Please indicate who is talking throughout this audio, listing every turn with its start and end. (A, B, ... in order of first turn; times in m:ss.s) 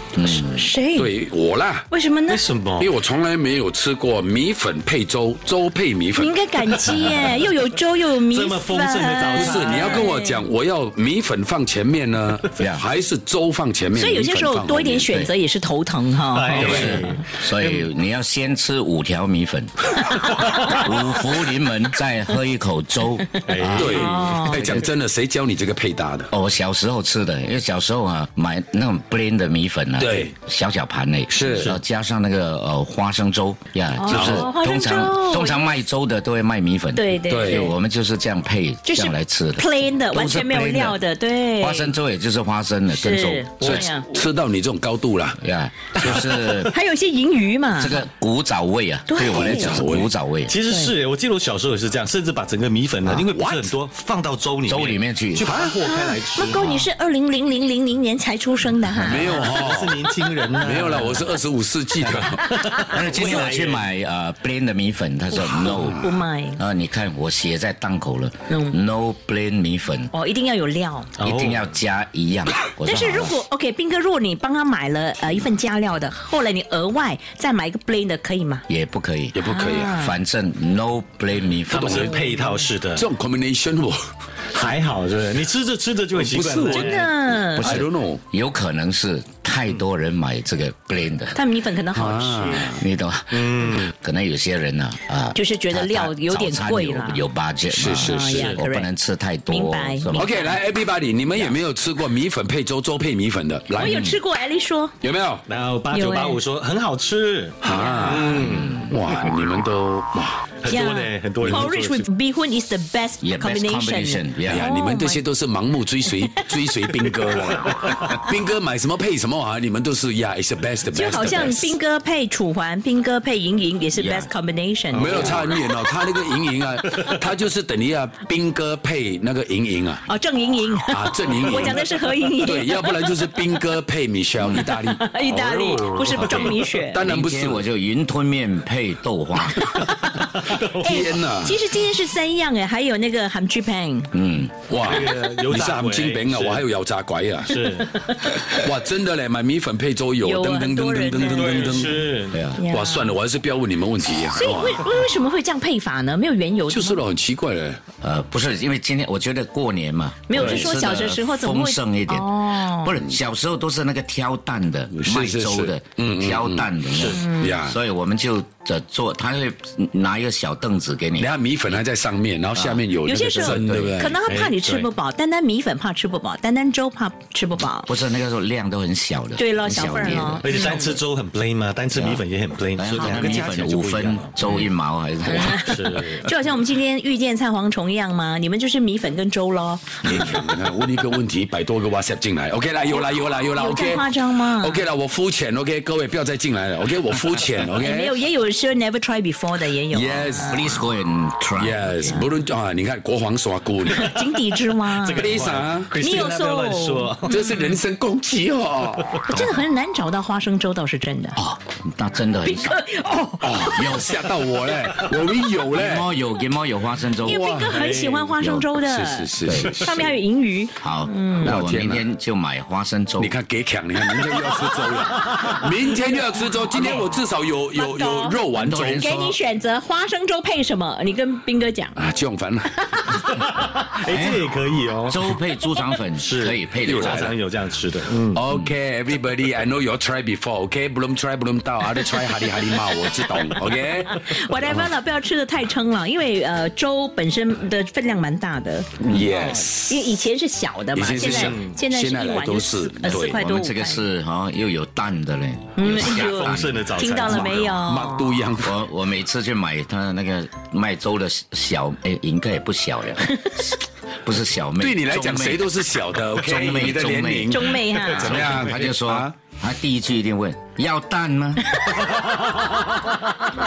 0:00.2-0:00.8 A
0:00.3-0:01.1 B
0:01.0-0:01.9 C
0:01.9-0:02.4 B
0:02.3-0:02.9 D
0:02.8-0:07.2 C
0:06.2-0:10.5 B
0:08.3-0:10.1 D
0:09.3-0:15.1 C
0:12.6-0:12.8 A
0:13.9-0:16.9 B
0:16.3-0:17.9 D
0:16.5-0:17.0 C
0:16.5-0:24.0 A
0:23.4-0:24.4 D
0:23.7-0:26.3 C
0:23.8-0:24.8 B
0:26.3-0:41.0 A
0:30.0-0:30.3 C
0:31.3-0:31.8 C
0:31.5-0:31.8 D
0:34.0-0:35.7 B
0:34.1-0:34.5 C
0:36.9-0:37.7 B
0:37.2-0:37.7 C
0:38.8-0:41.9 B
0:41.6-0:43.8 A
0:42.9-0:44.1 B
0:43.6-0:45.4 C
0:45.4-0:46.8 A
0:46.5-0:48.0 B
0:47.8-0:50.6 A
0:49.1-0:49.8 B
0:49.3-0:50.1 C
0:50.5-0:56.6 D
0:50.7-0:50.9 B
0:53.3-0:53.8 C
0:54.7-0:55.6 A
0:55.8-0:59.5 B
0:56.5-0:56.9 A
0:59.0-1:02.5 C
0:59.1-1:01.3 D
1:02.0-1:03.9 D
1:02.8-1:10.1 A
1:05.4-1:06.1 C
1:06.0-1:06.6 B
1:08.5-1:08.8 B
1:10.1-1:11.1 B
1:11.2-1:11.7 D
1:11.2-1:13.4 A
1:12.8-1:18.6 B
1:18.7-1:22.1 A
1:19.3-1:20.0 C
1:19.4-1:20.2 B
1:21.7-1:22.2 C
1:21.7-1:23.1 D
1:22.1-1:22.7 B
1:22.9-1:24.0 C
1:24.5-1:27.1 D
1:26.2-1:28.2 C
1:26.6-1:27.8 B
1:27.6-1:31.4 A
1:31.3-1:32.7 B
1:31.9-1:32.8 C
1:32.7-1:40.3 A
1:33.3-1:33.9 D
1:35.3-1:37.3 B
1:37.7-1:38.6 C
1:38.0-1:38.9 B
1:39.5-1:40.6 B
1:40.1-1:44.2 C
1:43.7-1:44.9 B
1:45.0-1:45.4 C
1:45.5-1:49.4 D
1:45.9-1:46.4 B
1:47.6-1:50.5 C
1:47.6-1:48.4 B
1:48.5-1:48.9 A
1:50.6-1:52.1 D
1:50.6-1:55.2 B
1:53.2-1:54.7 A
1:54.5-2:01.8 C
1:57.3-1:57.8 D
2:00.9-2:05.4 B
2:03.9-2:04.3 A
2:04.9-2:10.0 C
2:05.0-2:05.6 D
2:10.0-2:13.2 B
2:10.9-2:15.0 C
2:14.4-2:14.7 A
2:14.6-2:17.0 B
2:15.3-2:16.5 D
2:16.1-2:17.7 C
2:17.0-2:19.9 A
2:20.0-2:21.1 D
2:20.8-2:21.6 C
2:20.8-2:24.1 B
2:24.1-2:24.6 A
2:24.7-2:27.7 C
2:24.8-2:26.6 D
2:27.5-2:28.0 D
2:28.2-2:32.2 C
2:30.2-2:31.8 B
2:31.2-2:32.4 D
2:32.3-2:32.7 A
2:32.6-2:33.2 B
2:32.7-2:34.9 C
2:34.3-2:37.0 B
2:36.7-2:37.8 C
2:38.0-2:51.3 A
2:40.3-2:43.0 B
2:40.4-2:40.7 D
2:44.9-2:46.7 C
2:46.9-2:47.3 D
2:47.2-2:47.6 B
2:47.3-2:47.8 C
2:51.2-2:54.2 C
2:52.5-2:52.8 A
2:53.0-2:57.9 B
2:53.4-2:54.0 A
2:54.2-2:54.9 D
2:57.8-3:00.5 A
2:59.4-3:01.0 B
3:00.4-3:04.3 D
3:01.9-3:02.2 A
3:02.8-3:05.7 A
3:02.9-3:03.4 B
3:05.2-3:10.4 B
3:05.5-3:06.3 D
3:10.0-3:18.2 C
3:13.5-3:14.9 B
3:17.8-3:20.8 B
3:19.9-3:20.6 C
3:20.4-3:22.3 A
3:21.6-3:24.2 C
3:23.9-3:25.4 B
3:24.9-3:27.3 D
3:25.1-3:25.9 C
3:26.0-3:27.8 B
3:27.3-3:29.2 C
3:29.3-3:31.4 B
3:29.3-3:29.6 A
3:31.4-3:32.8 A
3:32.4-3:34.0 B
3:33.4-3:36.1 C
3:33.7-3:34.2 A
3:35.7-3:37.6 A
3:37.2-3:41.6 B
3:37.4-3:37.7 C
3:37.4-3:38.3 D
3:38.4-3:38.7 A
3:38.8-3:39.9 C
3:39.4-3:40.1 A
3:39.5-3:40.1 D
3:40.8-3:43.4 A
3:41.4-3:42.1 C
3:43.2-3:49.1 C
3:45.3-3:45.5 D
3:46.7-3:47.0 B
3:47.7-3:48.4 B
3:48.5-3:49.4 A
3:49.0-3:52.0 B
3:52.0-3:52.7 C
3:53.1-3:55.3 D
3:54.1-3:54.4 A
3:55.1-3:57.3 A
3:56.2-3:58.4 D
3:56.8-3:57.4 C
3:58.3-4:04.3 C
4:03.5-4:14.1 B
4:09.0-4:09.3 A
4:09.0-4:10.1 C
4:10.9-4:13.4 C
4:11.2-4:11.7 D
4:13.0-4:16.9 A
4:15.8-4:18.3 B
4:15.9-4:17.8 D
4:17.4-4:18.8 C
4:18.6-4:25.7 A
4:24.8-4:29.4 C
4:26.4-4:27.6 A
4:27.5-4:28.4 B
4:28.0-4:28.7 D
4:28.2-4:31.7 A
4:31.8-4:32.1 B
4:32.0-4:33.2 D